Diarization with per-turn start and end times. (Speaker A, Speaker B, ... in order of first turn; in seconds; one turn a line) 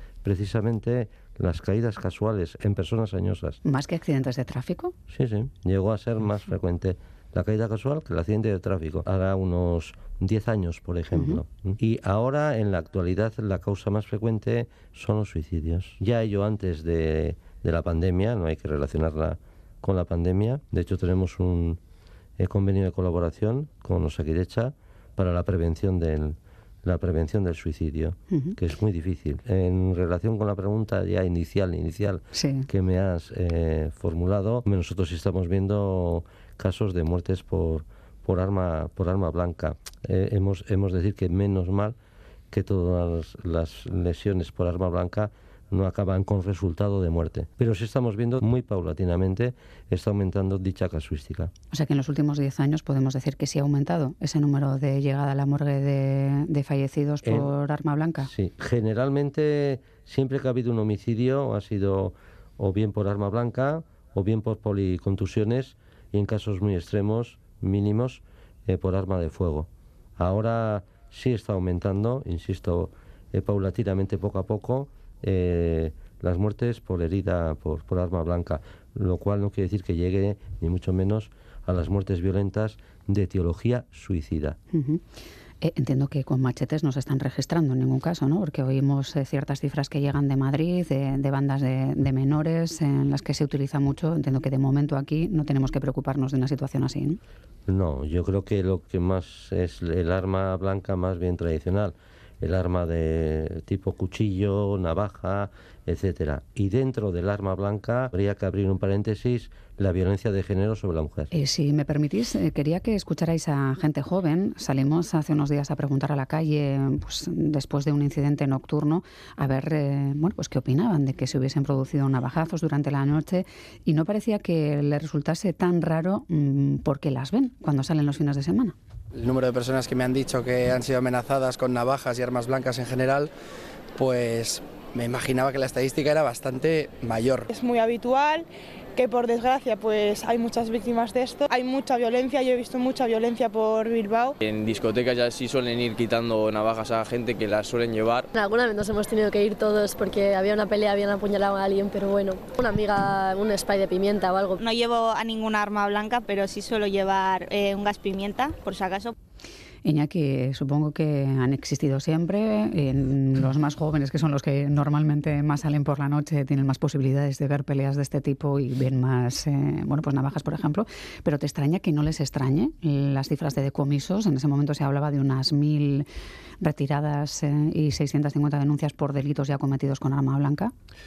Speaker A: 0.2-3.6
Speaker B: 3.6-4.9
Speaker A: 5.1-21.8
Speaker B: 11.1-11.4
Speaker A: 22.4-42.0
Speaker B: 28.3-28.6
Speaker B: 32.3-32.7
Speaker A: 42.5-51.5
Speaker B: 51.7-58.3
Speaker A: 57.2-57.5
Speaker A: 58.2-84.6
Speaker B: 84.7-85.0
Speaker B: 85.6-97.2
Speaker A: 97.7-111.3
Speaker B: 111.3-128.8
Speaker C: 129.1-133.3
Speaker C: 133.9-137.5
Speaker D: 137.5-144.4
Speaker E: 144.4-148.3
Speaker F: 148.3-154.6
Speaker G: 154.6-159.1
Speaker B: 159.8-176.1
Speaker B: 176.6-180.7